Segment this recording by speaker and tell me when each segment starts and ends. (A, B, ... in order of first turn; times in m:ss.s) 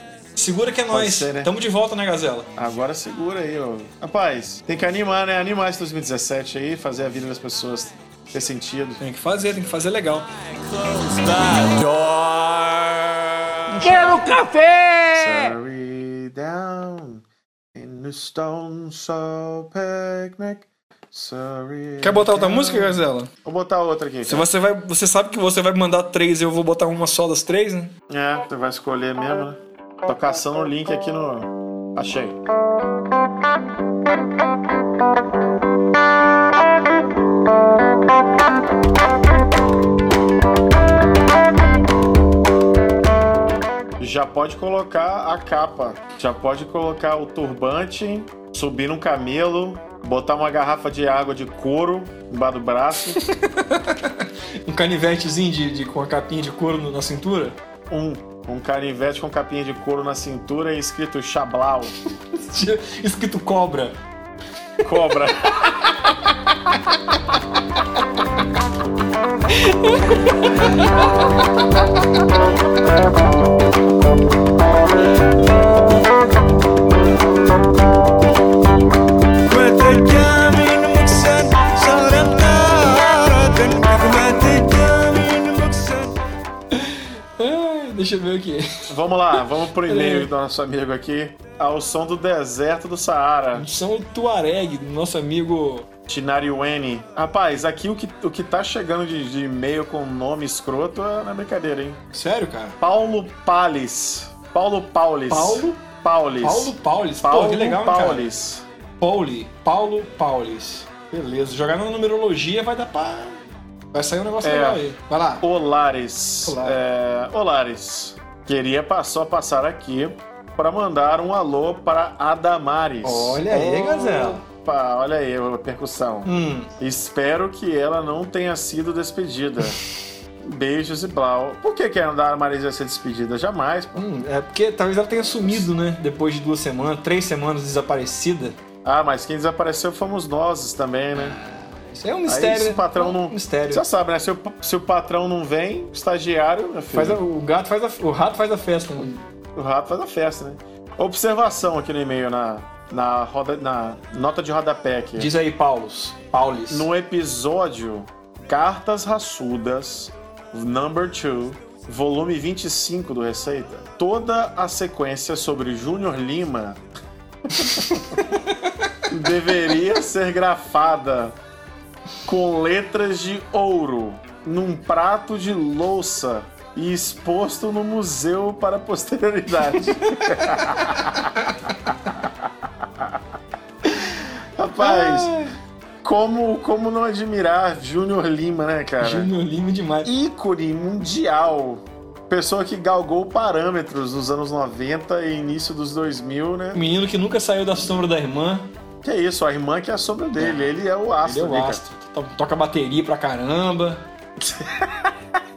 0:00.4-0:02.5 A
0:00.9-0:01.5 B
0:02.6-0:09.0 B
0:09.0-0:10.3 A
0:14.1-0:14.9 C
0:15.1-0:17.2 B
0:17.8-0:24.5 B
0:22.0-0:23.3 A
0:24.2-0:27.9 A
0:28.1-0:32.4 B
0:44.0-0:53.2 B
0:53.2-0:57.6 A
0:57.9-1:02.0 B
1:02.4-1:04.0 A
1:04.8-1:05.9 B
1:09.5-1:10.9 A
1:19.5-1:22.4 C
1:22.9-1:23.5 C
1:24.0-1:26.0 C
1:26.7-1:28.9 A
1:28.9-1:33.7 B
1:29.9-1:30.3 A
1:33.6-1:35.9 A
1:36.1-1:42.0 B
1:42.1-1:42.8 A
1:42.8-1:48.7 B
1:45.3-1:45.8 A
1:46.4-1:48.3 A
1:49.0-1:53.4 A
1:53.9-1:55.4 A
1:54.4-1:54.8 B
1:55.4-2:09.8 B
1:56.5-1:56.8 A
2:03.0-2:04.4 A
2:06.2-2:06.7 A
2:10.4-2:14.0 B
2:14.0-2:18.6 A
2:18.8-2:21.4 B
2:21.2-2:23.8 A
2:22.3-2:27.2 B
2:26.9-2:29.2 A
2:29.6-2:35.3 B
2:35.2-2:36.9 A
2:36.7-2:46.8 B
2:47.5-2:48.0 B
2:49.1-2:51.4 B
2:52.2-3:01.4 B
3:00.0-3:00.4 A
3:03.9-3:04.2 A
3:04.6-3:05.3 B
3:04.8-3:05.6 A
3:06.0-3:09.3 B
3:09.0-3:10.1 A
3:10.0-3:16.8 B
3:16.8-3:18.7 A
3:19.0-3:21.8 B
3:20.4-3:20.7 A
3:21.2-3:24.0 A
3:24.4-3:25.1 B